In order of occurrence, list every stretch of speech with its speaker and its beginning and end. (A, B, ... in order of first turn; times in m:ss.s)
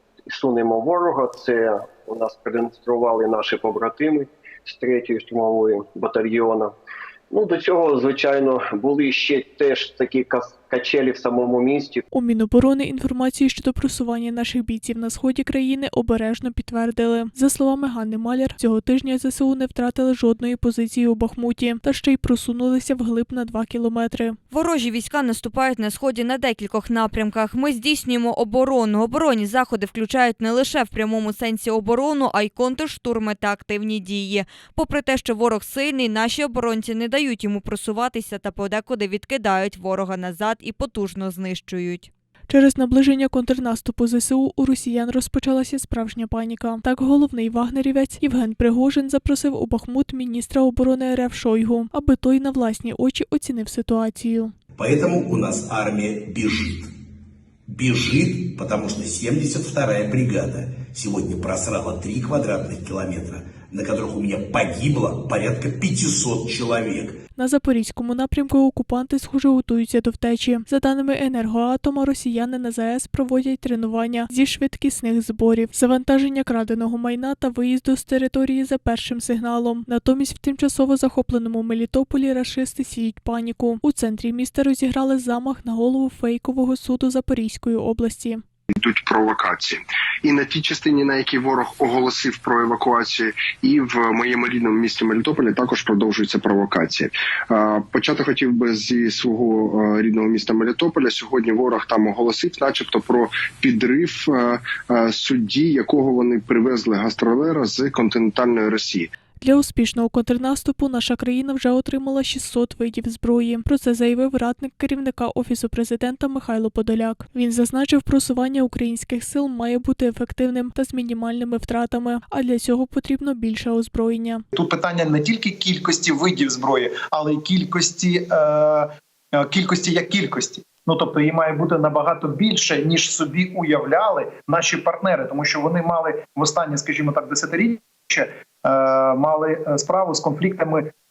0:00.3-0:06.7 A
0:07.3-0:12.0 A
0:12.1-0:24.4 B
0:24.5-0:42.1 C
0:42.5-0:54.5 B
0:54.8-0:56.9 D
0:57.7-1:07.2 D
1:07.4-1:28.4 B
1:28.8-1:49.1 E
1:49.4-2:04.4 B
2:04.5-2:20.9 F